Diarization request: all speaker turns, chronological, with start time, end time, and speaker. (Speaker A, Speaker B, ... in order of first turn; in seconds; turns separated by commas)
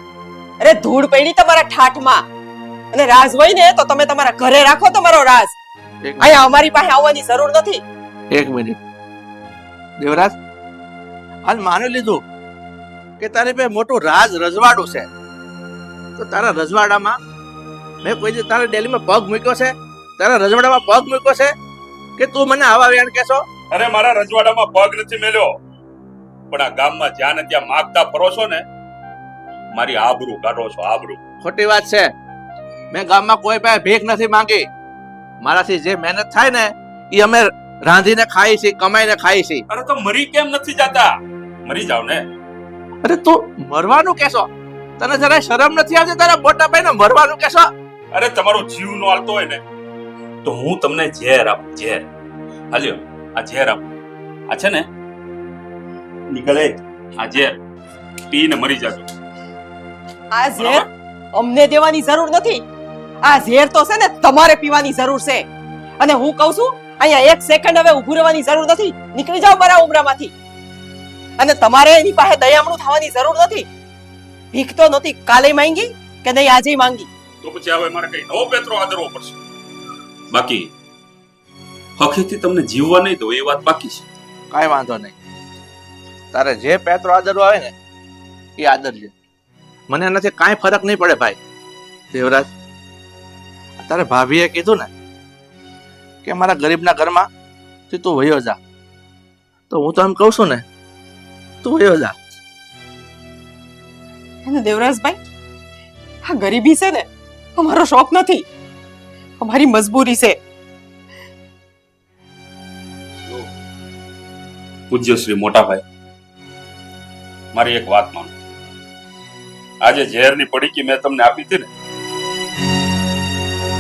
Speaker A: 0.6-2.2, Speaker A: 2.9-5.5, Speaker B: 6.0-6.4, Speaker A: 6.2-7.8, Speaker B: 8.3-8.8, Speaker B: 10.0-10.3, Speaker B: 11.4-12.2, Speaker B: 13.2-15.1, Speaker B: 16.2-17.2, Speaker B: 18.0-21.5, Speaker B: 22.2-23.4, Speaker C: 23.7-25.5, Speaker C: 26.5-28.6, Speaker C: 29.7-31.2, Speaker B: 31.4-32.1, Speaker B: 32.9-34.7, Speaker B: 35.4-39.6, Speaker C: 39.7-41.1, Speaker C: 41.6-42.2, Speaker B: 43.0-47.7, Speaker C: 48.1-49.6, Speaker C: 50.4-52.0, Speaker C: 52.7-53.9, Speaker C: 54.5-54.9, Speaker C: 56.3-57.6, Speaker C: 58.3-59.1, Speaker A: 60.3-62.6, Speaker C: 60.6-60.9, Speaker A: 63.2-65.4, Speaker A: 66.0-70.3, Speaker A: 71.4-73.7, Speaker A: 74.5-77.1, Speaker C: 77.4-79.4, Speaker C: 80.3-80.6, Speaker C: 82.0-84.0, Speaker B: 84.5-85.1, Speaker B: 86.3-87.7, Speaker B: 88.6-89.1, Speaker B: 89.9-91.4, Speaker B: 92.1-92.5, Speaker B: 93.8-94.9, Speaker B: 96.2-97.3, Speaker B: 97.9-98.6, Speaker B: 99.7-100.6, Speaker B: 101.6-102.1, Speaker A: 104.4-105.2, Speaker A: 106.3-108.4, Speaker A: 109.4-110.3, Speaker C: 114.9-115.8, Speaker C: 117.5-118.3, Speaker C: 119.8-121.7